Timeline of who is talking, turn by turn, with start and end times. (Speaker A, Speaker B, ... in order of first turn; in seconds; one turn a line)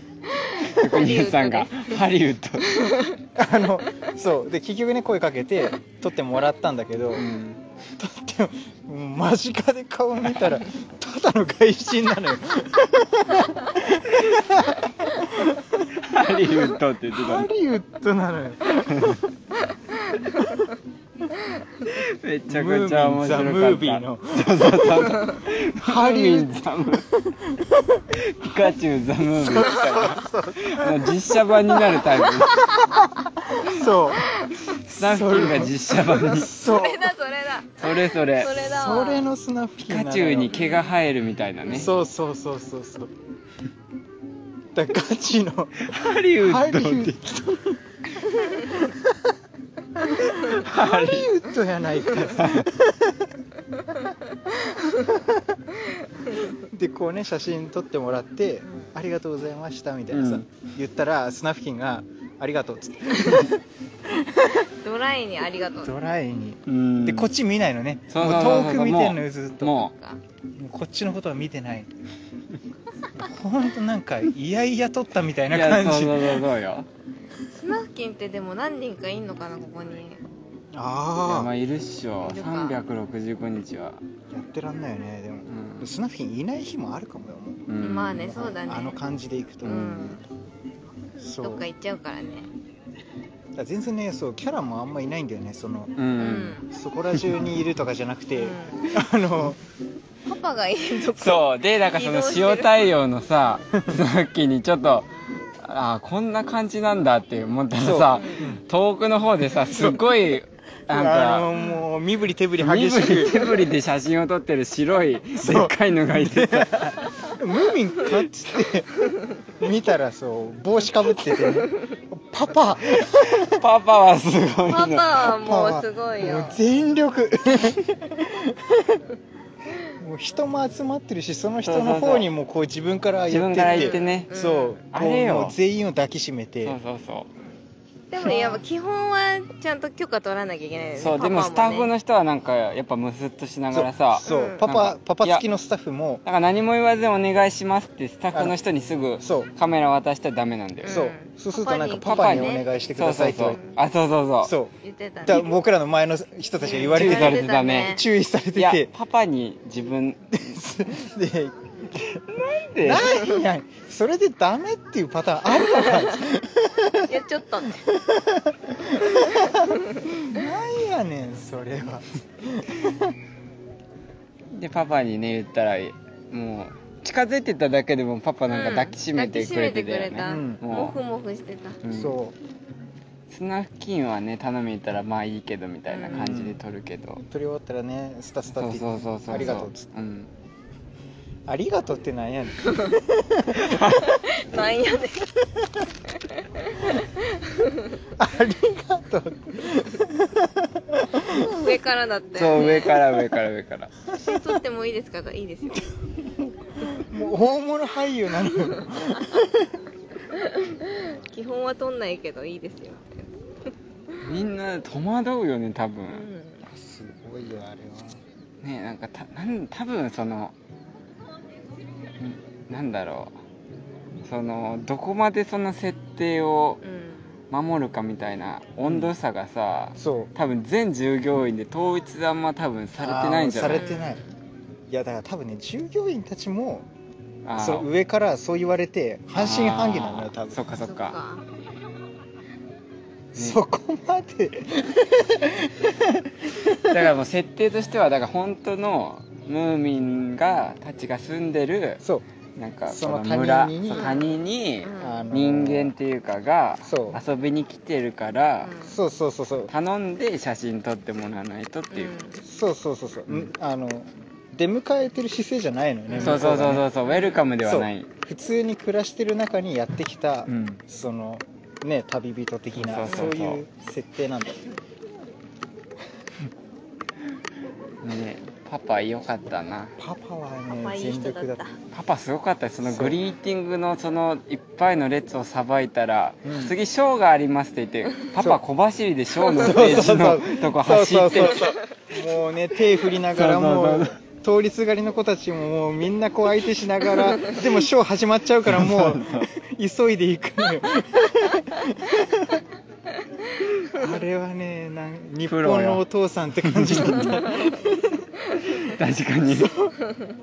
Speaker A: 0.3-2.0
Speaker B: 0.6-2.9
Speaker A: 2.6-3.2
Speaker C: 3.4-7.3
Speaker B: 7.2-7.6
Speaker C: 8.0-15.8
Speaker B: 16.0-17.5
Speaker C: 17.1-19.2
Speaker B: 18.9-19.2
Speaker B: 21.9-27.1
Speaker C: 22.5-25.2
Speaker C: 25.8-26.5
Speaker C: 27.1-28.0
Speaker B: 28.1-32.9
Speaker C: 29.3-31.2
Speaker A: 32.4-33.0
Speaker C: 32.9-34.3
Speaker A: 33.7-34.6
Speaker B: 34.7-36.5
Speaker C: 34.9-37.2
Speaker A: 36.5-39.3
Speaker B: 37.8-38.5
Speaker C: 38.5-40.6
Speaker B: 39.9-41.9
Speaker A: 40.5-40.9
Speaker C: 41.7-43.1
Speaker C: 44.7-47.8
Speaker B: 45.8-47.2
Speaker C: 48.6-49.3
Speaker C: 50.0-53.3
Speaker B: 50.5-51.3
Speaker B: 52.3-52.7
Speaker C: 55.0-55.6
Speaker C: 56.6-64.7
Speaker B: 60.1-60.5
Speaker A: 64.8-65.9
Speaker C: 65.8-69.8
Speaker B: 66.7-67.3
Speaker B: 68.1-69.9
Speaker A: 69.9-70.2
Speaker C: 70.6-71.9
Speaker C: 73.2-76.5
Speaker B: 75.5-76.9
Speaker A: 77.5-80.2
Speaker C: 80.7-81.5
Speaker B: 81.2-84.0
Speaker A: 82.2-82.8
Speaker C: 84.3-90.2
Speaker B: 85.5-85.9
Speaker B: 87.7-88.4
Speaker A: 87.8-89.0
Speaker A: 89.6-90.2
Speaker C: 91.2-91.7
Speaker A: 91.4-92.5
Speaker C: 93.5-96.0
Speaker B: 96.0-96.6
Speaker A: 96.2-96.7
Speaker C: 96.7-99.6
Speaker A: 98.4-99.0
Speaker A: 100.3-102.9
Speaker B: 101.1-105.1
Speaker B: 105.6-111.5
Speaker C: 107.8-108.6
Speaker A: 108.2-108.4
Speaker C: 109.6-110.0
Speaker C: 110.9-113.5
Speaker B: 112.6-116.8
Speaker C: 115.4-118.9
Speaker C: 119.6-123.6
Speaker B: 123.4-125.3
Speaker A: 124.7-126.6
Speaker C: 125.3-129.0
Speaker C: 130.0-136.8
Speaker B: 131.6-132.3
Speaker B: 133.3-134.3
Speaker A: 133.6-134.8
Speaker B: 134.9-135.6
Speaker B: 136.6-137.3
Speaker A: 138.1-141.9
Speaker C: 138.2-138.6
Speaker B: 141.0-145.4
Speaker C: 143.7-146.2
Speaker A: 144.3-144.6
Speaker B: 146.2-151.0
Speaker C: 149.2-149.5
Speaker A: 150.8-152.7
Speaker C: 150.9-153.6
Speaker B: 152.1-154.5
Speaker A: 153.4-153.8
Speaker C: 154.4-158.9
Speaker A: 154.8-155.6
Speaker A: 156.6-158.0
Speaker B: 156.9-157.9
Speaker B: 158.6-160.5
Speaker C: 160.3-162.2
Speaker B: 161.9-163.2
Speaker C: 162.8-167.2
Speaker A: 165.7-166.2
Speaker A: 167.1-167.8
Speaker C: 167.9-173.2
Speaker A: 169.1-170.1
Speaker B: 174.5-181.0
Speaker A: 178.5-181.8
Speaker C: 180.2-180.7
Speaker B: 181.8-182.2
Speaker C: 181.9-182.4
Speaker B: 183.3-187.2
Speaker A: 185.9-186.3
Speaker C: 186.1-186.6
Speaker C: 187.2-189.8
Speaker B: 188.6-190.3
Speaker A: 189.3-189.6
Speaker C: 191.5-193.7
Speaker A: 192.7-192.9
Speaker B: 193.5-194.1
Speaker A: 193.9-195.3
Speaker A: 196.2-198.0
Speaker C: 198.2-201.7
Speaker A: 201.4-203.0
Speaker B: 202.3-203.9
Speaker A: 204.1-205.9
Speaker C: 206.3-209.8
Speaker A: 210.3-213.7
Speaker B: 214.2-216.2
Speaker A: 216.1-216.6
Speaker C: 216.7-218.2
Speaker B: 218.6-220.5
Speaker B: 222.2-223.3
Speaker B: 224.2-226.8
Speaker A: 226.8-227.3
Speaker B: 227.5-233.9
Speaker C: 228.8-229.1
Speaker C: 230.0-230.3
Speaker C: 233.0-234.2
Speaker A: 233.7-234.3
Speaker C: 234.9-236.9
Speaker B: 237.4-237.9
Speaker C: 237.6-240.7
Speaker B: 239.4-241.2
Speaker A: 240.8-241.4
Speaker C: 243.3-247.0
Speaker B: 246.9-252.0
Speaker B: 252.6-258.7
Speaker C: 252.9-254.2
Speaker A: 253.9-255.3
Speaker C: 255.0-255.9
Speaker C: 256.8-257.2
Speaker A: 258.6-259.0
Speaker C: 258.9-259.7
Speaker B: 259.7-262.1
Speaker A: 261.9-262.4
Speaker C: 262.4-266.9
Speaker A: 266.1-266.5
Speaker B: 266.2-268.1
Speaker A: 267.1-267.4
Speaker C: 267.6-274.7
Speaker B: 270.5-270.8
Speaker B: 272.8-273.6
Speaker B: 278.0-280.0
Speaker C: 280.0-281.6
Speaker A: 280.8-281.8
Speaker B: 281.9-291.8
Speaker C: 282.8-283.2
Speaker C: 286.4-286.8
Speaker C: 289.4-302.6
Speaker B: 293.3-294.2
Speaker B: 298.7-299.5
Speaker C: 303.9-308.1
Speaker B: 305.5-306.0
Speaker B: 306.7-307.6
Speaker A: 307.5-307.8
Speaker B: 308.7-309.8
Speaker C: 309.5-309.9